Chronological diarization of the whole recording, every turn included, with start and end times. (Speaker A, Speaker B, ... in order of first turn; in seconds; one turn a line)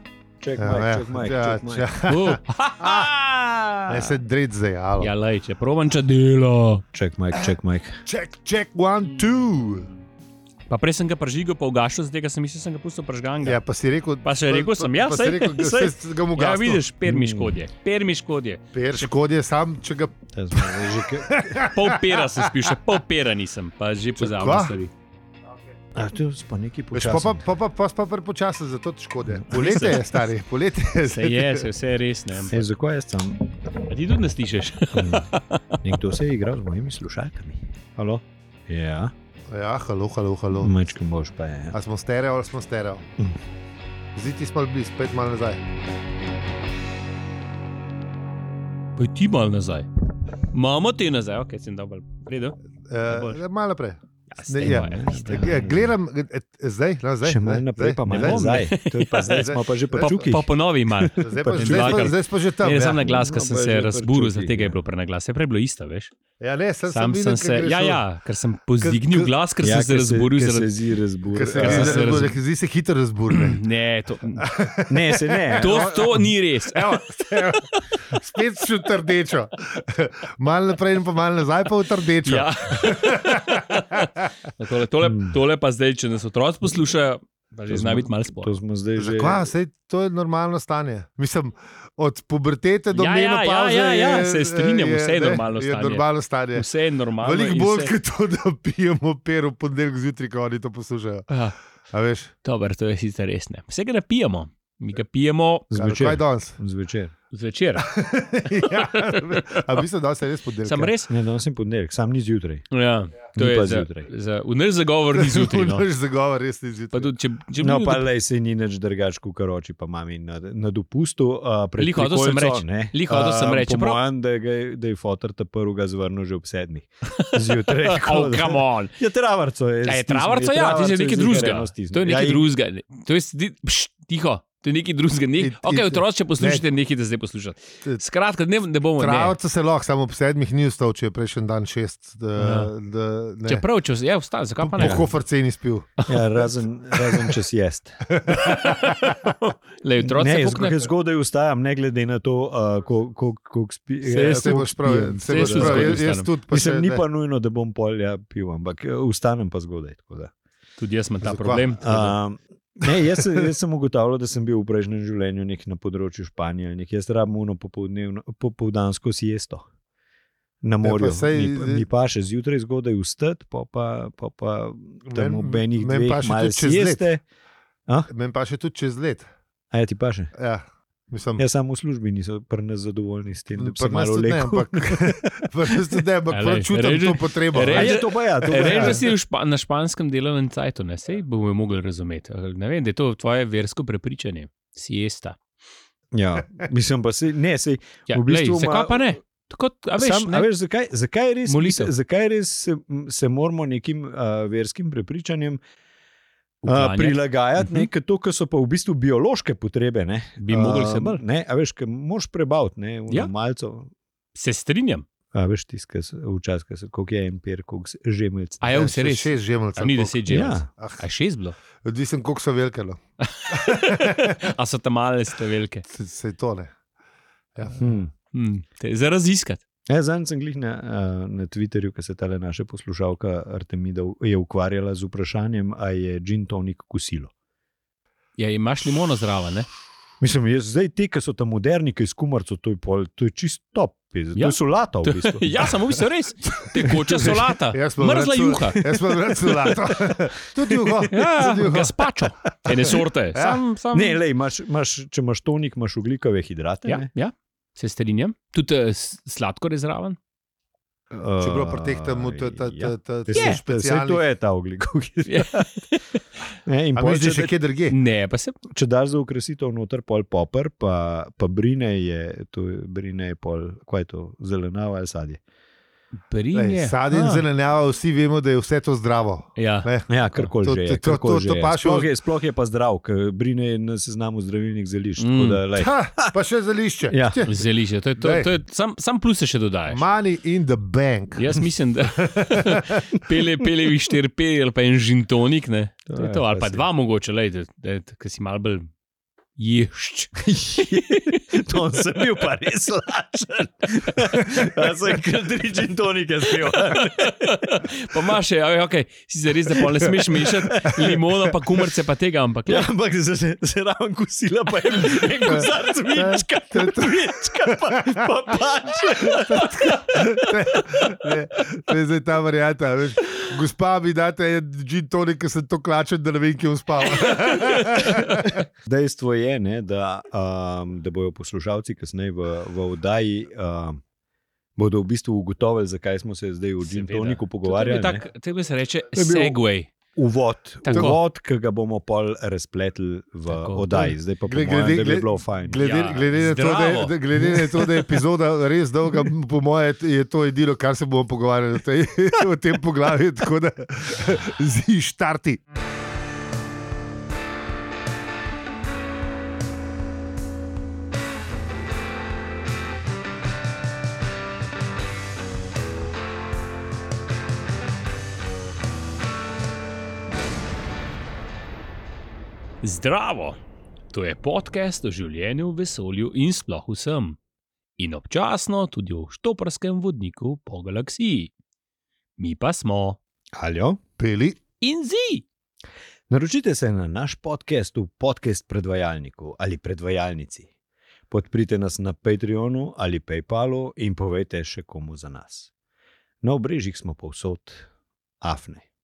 Speaker A: 0.4-1.9
Speaker B: 0.6-3.1
Speaker C: 2.1-4.2
Speaker B: 3.9-5.1
Speaker C: 5.0-6.8
Speaker A: 6.9-8.0
Speaker B: 8.1-9.9
Speaker C: 10.7-13.6
Speaker B: 13.4-16.8
Speaker C: 14.2-19.1
Speaker A: 17.0-17.6
Speaker B: 18.7-22.8
Speaker A: 20.3-21.7
Speaker C: 21.7-24.9
Speaker B: 24.2-24.7
Speaker A: 25.9-27.4
Speaker B: 26.9-31.6
Speaker A: 29.3-29.8
Speaker C: 29.5-30.1
Speaker C: 31.1-32.6
Speaker A: 32.5-33.4
Speaker C: 33.9-35.7
Speaker A: 34.9-35.3
Speaker A: 35.8-39.1
Speaker B: 39.5-40.7
Speaker A: 40.6-41.8
Speaker B: 41.7-43.0
Speaker B: 44.1-45.6
Speaker C: 49.0-49.9
Speaker C: 50.5-52.6
Speaker B: 52.9-58.6
Speaker C: 53.1-53.4
Speaker C: 54.3-55.6
Speaker A: 54.6-55.9
Speaker A: 57.2-62.1
Speaker C: 58.1-66.1
Speaker B: 59.4-60.3
Speaker B: 61.1-63.0
Speaker A: 62.9-64.8
Speaker B: 66.4-68.0
Speaker C: 66.9-70.7
Speaker B: 68.8-69.3
Speaker A: 69.6-72.3
Speaker B: 71.3-73.6
Speaker C: 71.5-72.3
Speaker C: 73.3-74.5
Speaker B: 74.4-84.3
Speaker A: 74.9-76.1
Speaker C: 75.6-77.0
Speaker C: 82.2-88.6
Speaker A: 85.0-85.4
Speaker A: 87.7-89.5
Speaker B: 89.0-96.7
Speaker C: 92.9-97.9
Speaker B: 97.2-101.3
Speaker C: 101.3-101.5
Speaker B: 101.9-102.3
Speaker C: 102.4-105.7
Speaker A: 105.7-107.1
Speaker B: 105.7-106.6
Speaker C: 107.3-107.9
Speaker B: 107.8-110.9
Speaker C: 109.0-109.7
Speaker C: 110.6-111.1
Speaker A: 111.1-112.7
Speaker C: 112.7-115.8
Speaker A: 113.3-114.1
Speaker B: 115.1-117.1
Speaker C: 116.9-118.0
Speaker A: 117.6-132.5
Speaker C: 121.8-124.0
Speaker C: 127.0-128.9
Speaker C: 129.8-139.3
Speaker B: 135.4-136.6
Speaker B: 139.0-143.6
Speaker C: 142.3-142.7
Speaker C: 143.4-145.1
Speaker B: 144.6-145.9
Speaker A: 144.8-145.1
Speaker A: 146.1-148.1
Speaker B: 146.9-147.3
Speaker B: 148.1-149.3
Speaker C: 148.3-150.9
Speaker A: 150.0-160.3
Speaker C: 154.0-156.3
Speaker B: 154.1-157.0
Speaker C: 160.8-162.2
Speaker B: 161.2-161.7
Speaker A: 161.8-169.7
Speaker B: 162.9-163.5
Speaker A: 170.6-177.2
Speaker B: 170.8-171.8
Speaker B: 175.1-177.0
Speaker B: 178.1-179.3
Speaker A: 179.7-180.3
Speaker B: 180.3-181.4
Speaker A: 181.4-186.0
Speaker B: 183.5-188.0
Speaker C: 186.3-195.4
Speaker A: 187.7-189.1
Speaker B: 188.6-189.0
Speaker A: 196.1-199.1
Speaker C: 198.1-200.5
Speaker A: 200.0-205.6
Speaker C: 201.5-201.9
Speaker C: 206.6-207.9
Speaker A: 206.7-213.9
Speaker C: 210.4-211.2
Speaker C: 214.3-215.1
Speaker A: 215.3-218.7
Speaker C: 218.6-221.6
Speaker B: 218.7-221.1
Speaker A: 220.3-220.7
Speaker B: 221.8-223.0
Speaker C: 223.2-225.8
Speaker B: 223.5-224.4
Speaker B: 225.9-226.7
Speaker B: 227.6-227.8
Speaker A: 227.7-228.1
Speaker C: 228.3-229.6
Speaker A: 229.9-237.3
Speaker C: 238.4-239.7
Speaker A: 240.2-246.0
Speaker C: 244.3-248.9
Speaker A: 246.8-247.5
Speaker B: 247.7-252.1
Speaker C: 251.1-254.2
Speaker B: 253.3-253.6
Speaker A: 253.9-257.1
Speaker C: 256.8-260.2
Speaker A: 261.1-265.7
Speaker B: 261.4-264.2
Speaker C: 263.3-263.6
Speaker C: 265.3-266.2
Speaker A: 266.6-267.5
Speaker B: 266.9-267.9
Speaker C: 267.9-268.6
Speaker A: 268.7-275.4
Speaker C: 276.3-277.4
Speaker B: 276.5-280.1
Speaker C: 279.6-280.5
Speaker A: 280.1-286.3
Speaker B: 280.6-282.1
Speaker C: 285.2-285.6
Speaker B: 285.7-287.7
Speaker A: 287.1-287.4
Speaker C: 287.4-290.0
Speaker B: 288.2-288.5
Speaker B: 289.9-293.1
Speaker C: 291.3-298.9
Speaker A: 296.1-296.8
Speaker C: 299.6-301.5
Speaker A: 300.4-307.9
Speaker C: 306.6-312.9
Speaker A: 310.0-311.2
Speaker A: 312.7-321.3
Speaker B: 315.4-318.2
Speaker B: 319.2-328.5
Speaker C: 327.1-328.6
Speaker A: 328.8-334.0
Speaker A: 334.8-338.2
Speaker C: 336.8-339.9
Speaker A: 339.1-339.6
Speaker A: 340.1-345.9
Speaker C: 340.8-341.2
Speaker C: 343.5-344.1
Speaker B: 344.5-355.6
Speaker C: 345.8-347.1
Speaker C: 372.8-373.6
Speaker C: 374.1-377.4
Speaker C: 378.0-381.5
Speaker C: 382.4-383.2
Speaker A: 383.5-384.0
Speaker B: 384.2-384.6
Speaker C: 384.8-385.4
Speaker A: 386.3-390.7
Speaker A: 391.3-395.7
Speaker A: 396.4-397.9
Speaker A: 398.4-398.9